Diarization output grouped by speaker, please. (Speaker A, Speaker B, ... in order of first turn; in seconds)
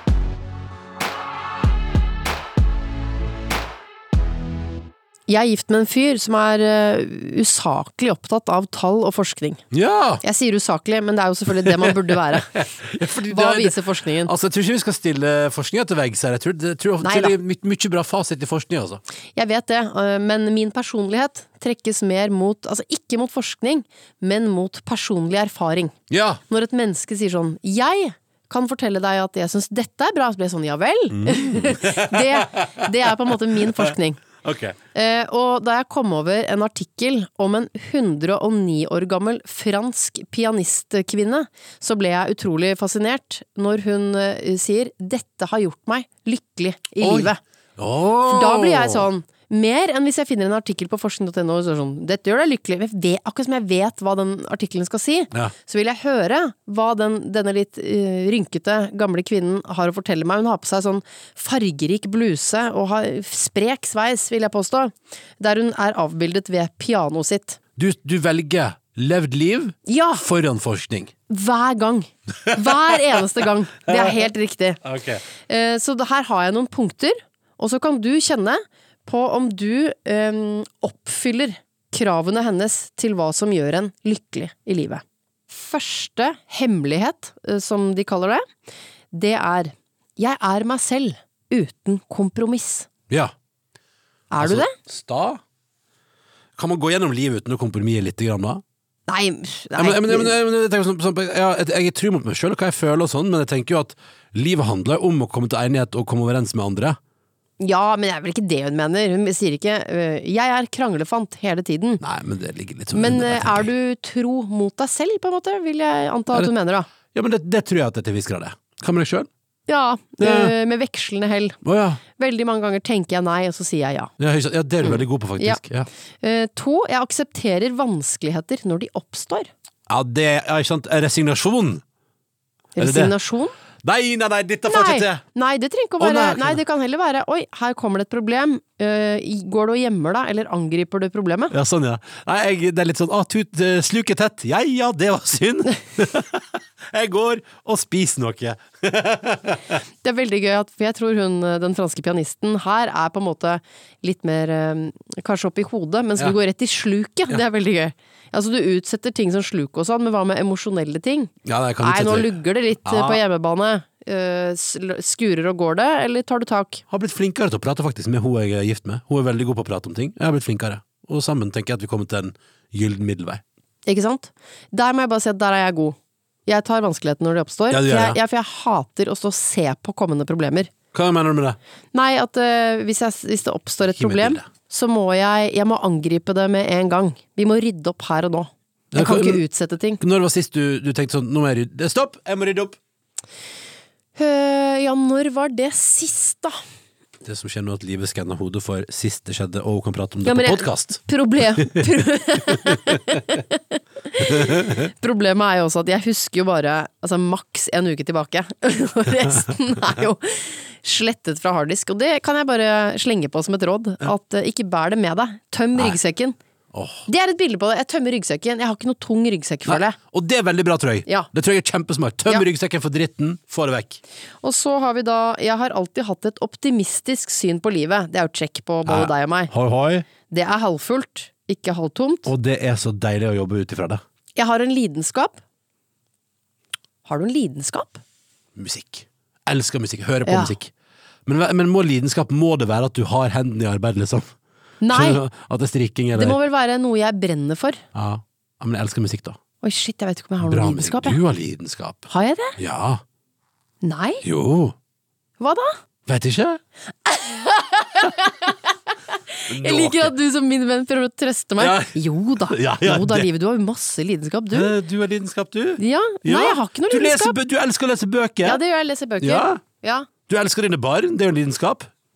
Speaker A: 5.3-9.6, 10.2-12.5, 13.2-14.3, 17.0-17.3, 19.3-25.9, 26.5-34.2, 34.9-47.4, 48.2-67.6, 69.8-70.2, 71.3-74.8, 75.5-88.4, 89.1-92.9, 94.3-94.7, 99.1-100.3, 107.6-112.0, 112.9-116.9, 119.7-121.6, 122.2-124.1, 124.8-125.6, 126.2-129.5, 132.8-133.6, 134.7-141.5, 150.0-166.8, 173.8-180.7, 181.9-190.0, 194.2-196.6, 200.2-216.3, 217.1-220.0, 224.4-229.5, 230.3-232.3, 234.3-235.4, 237.0-238.0, 240.2-240.5, 244.8-245.2, 246.1-247.8, 249.6-251.2, 252.1-252.6, 253.8-254.2, 255.4-255.8, 257.0-264.7, 265.8-267.4, 268.4-270.1
Speaker B: 9.7-10.2, 11.6-19.0, 26.1-26.4, 31.1-34.8, 47.0-49.1, 67.8-71.1, 72.5-72.9, 73.9-74.3, 74.8-75.2, 94.4-95.4, 96.5-98.6, 99.8-107.0, 112.0-113.7, 117.1-119.3, 120.2-120.5, 121.6-122.0, 124.2-125.9, 129.9-131.8, 132.8-133.1, 133.8-135.2, 136.0-136.6, 141.5-149.8, 161.4-162.3, 162.8-163.2, 166.9-173.4, 177.7-178.2, 180.9-181.6, 183.9-184.5, 188.9-189.4, 190.0-192.8, 197.2-201.0, 201.6-203.0, 204.2-204.9, 216.7-217.1, 219.7-224.0, 228.8-230.1, 232.2-234.0, 238.6-240.7, 241.2-244.3, 244.9-246.4, 247.9-249.4, 250.4-253.0, 254.2-254.7, 256.1-256.6, 259.5-260.1, 261.6-263.3, 264.5-268.6, 269.2-269.6, 270.3-271.9